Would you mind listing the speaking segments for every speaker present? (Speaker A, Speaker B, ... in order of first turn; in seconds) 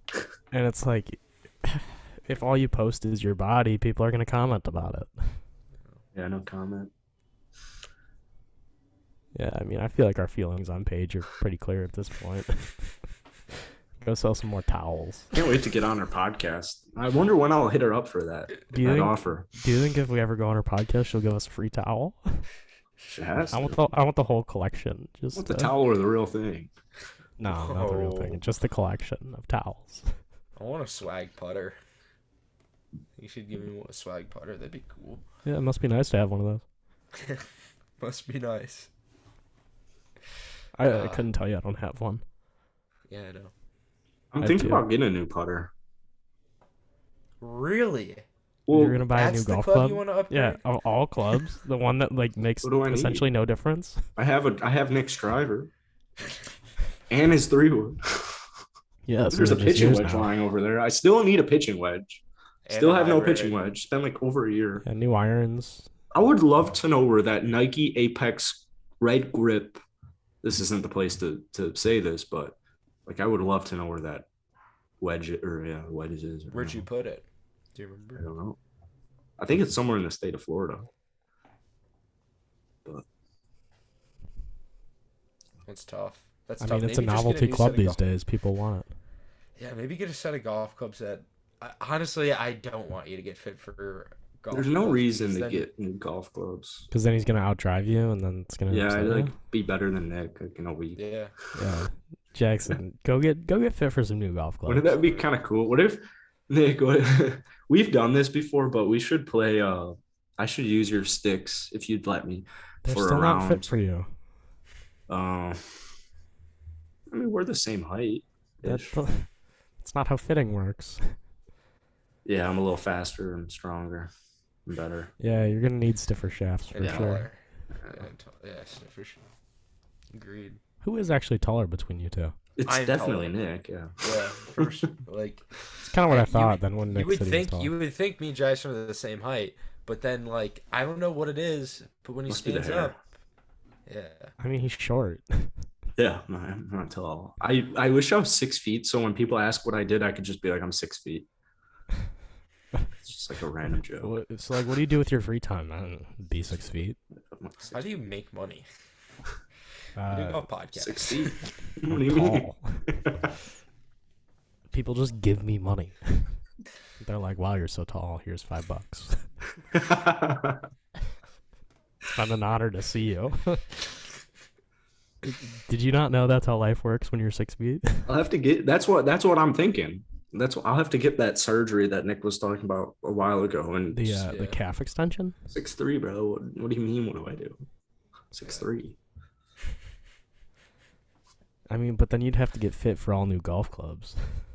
Speaker A: 0.5-5.4, 9.3-12.9, 14.0-15.3, 18.7-22.4, 23.5-25.7, 27.4-30.1, 35.4-36.6, 40.8-42.2, 44.4-44.8, 48.7-54.1, 59.0-60.3, 64.8-65.9, 86.6-88.9, 96.9-99.3, 101.5-105.0, 112.8-114.1, 118.6-119.3, 119.8-121.1, 125.2-127.3, 130.8-132.3, 135.8-137.7, 144.4-145.5, 154.0-157.0, 160.0-160.4, 161.8-162.8, 164.7-166.3, 167.0-169.2, 172.1-173.9, 175.2-178.1, 183.9-185.4, 191.7-194.4
Speaker B: 6.1-6.9, 15.3-19.5, 23.1-23.8, 25.3-26.7, 44.3-45.7, 48.7-49.0, 52.6-53.3, 54.1-55.7, 57.1-58.5, 59.3-64.8, 66.1-69.8, 70.4-74.3, 75.0-76.8, 78.1-78.6, 79.4-80.9, 94.5-96.9, 98.7-101.0, 104.7-113.8, 115.1-116.0, 117.1-119.0, 122.2-124.1, 124.7-125.1, 126.8-127.1, 127.7-128.0, 132.6-134.8, 142.3-143.0, 146.0-151.3, 153.0-154.1, 157.3-157.9, 160.7-163.3, 169.7-170.7, 178.1-184.3, 185.5-187.6, 188.3-189.0
Speaker C: 27.4-28.4, 30.6-31.8, 33.2-35.2, 37.1-37.5, 38.0-38.9, 40.8-41.2, 43.1-43.5, 47.4-48.2, 49.1-50.6, 62.6-63.6, 76.5-78.2, 85.6-88.0, 89.5-95.7, 101.0-101.3, 104.9-105.3, 126.7-129.2, 130.1-130.6, 132.7-133.3, 134.0-135.4, 136.0-143.0, 143.8-144.3, 157.7-158.7, 160.1-161.4, 184.3-184.6, 188.4-188.7